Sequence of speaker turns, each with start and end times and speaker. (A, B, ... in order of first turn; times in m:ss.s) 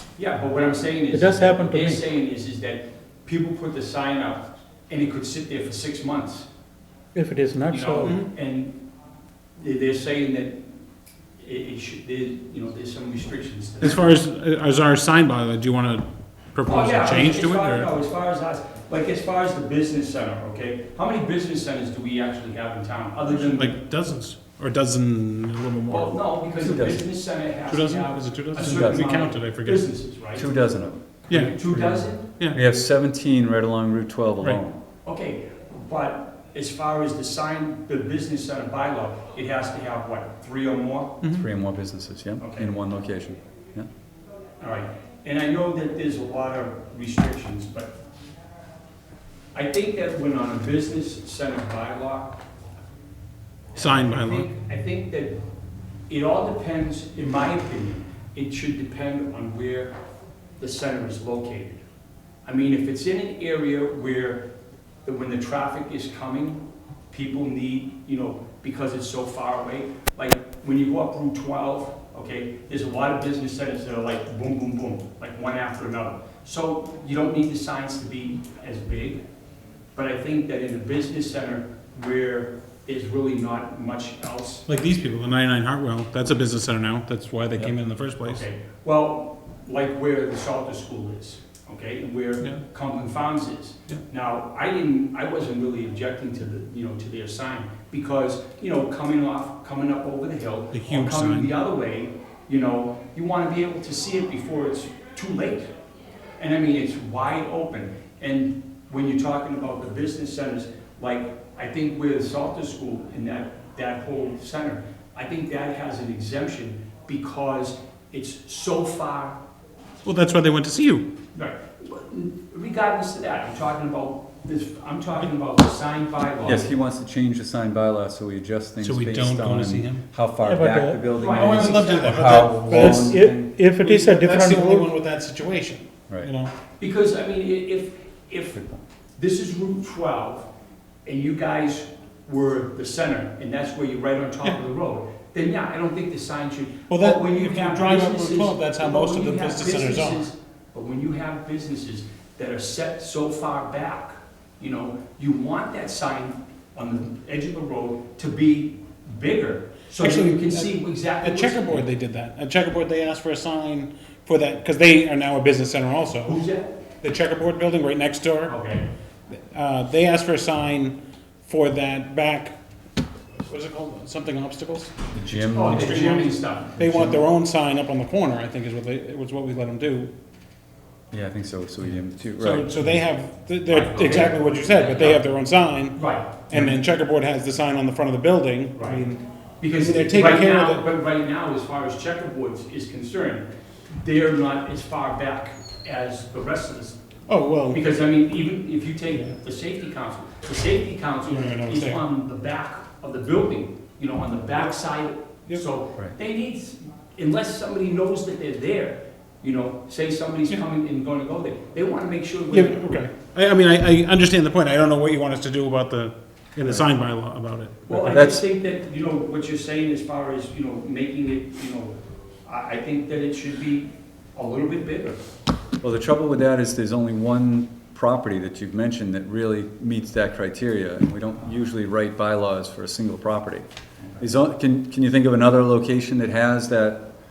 0:00.2-0:06.5 A
0:01.1-0:02.0 B
0:07.1-0:08.1 B
0:07.7-0:08.8 A
0:08.0-0:08.3 C
0:09.6-0:10.6 A
0:11.4-0:14.1 A
0:13.8-0:17.9 C
0:16.6-0:23.8 A
0:23.3-0:26.2 C
0:25.9-0:30.5 A
0:26.6-0:27.1 D
0:27.7-0:29.8 C
0:28.6-0:29.1 D
0:30.3-0:34.8 D
0:31.3-0:31.7 C
0:31.3-0:32.3 A
0:32.3-0:32.6 C
0:35.0-0:41.2 A
0:41.2-0:41.4 C
0:41.3-0:43.9 D
0:42.4-0:42.7 A
0:44.6-0:47.9 A
0:49.5-0:52.4 A
0:53.7-0:55.3 A
0:53.8-0:54.5 C
0:56.1-0:59.9 A
1:00.6-1:01.8 A
1:02.4-1:04.4 A
1:05.0-1:19.2 A
1:20.0-1:24.6 A
1:24.7-1:28.4 C
1:28.2-1:45.7 A
1:40.7-1:41.5 C
1:46.4-1:59.4 A
2:00.0-2:01.1 C
2:01.3-2:06.7 A
2:06.4-2:13.5 D
2:08.8-2:10.0 C
2:10.4-2:11.0 B
2:11.1-2:12.6 A
2:11.2-2:13.2 C
2:12.6-2:14.9 B
2:13.8-2:16.5 C
2:16.8-2:18.6 A
2:18.5-2:18.8 D
2:19.2-2:20.4 A
2:21.0-2:41.8 A
2:26.9-2:30.2 C
2:40.0-2:46.4 C
2:46.2-2:46.8 A
2:47.0-2:48.6 C
2:48.5-2:48.9 A
2:49.3-2:52.6 C
2:53.4-2:54.9 C
2:55.1-2:56.1 D
2:55.5-2:56.8 A
2:55.6-3:00.1 C
2:56.8-2:57.2 D
3:01.1-3:03.0 D
3:02.4-3:10.8 C
3:03.7-3:05.3 A
3:06.0-3:06.7 A
3:08.7-3:09.0 A
3:09.6-3:17.0 A
3:17.3-3:17.8 C
3:17.7-3:33.0 A
3:19.1-3:19.3 C
3:21.2-3:22.0 C
3:32.5-3:38.3 C
3:36.6-3:36.8 D
3:37.9-3:41.9 A
3:38.1-3:38.4 D
3:42.4-3:45.2 A
3:45.8-3:53.6 D
3:54.2-3:57.0 D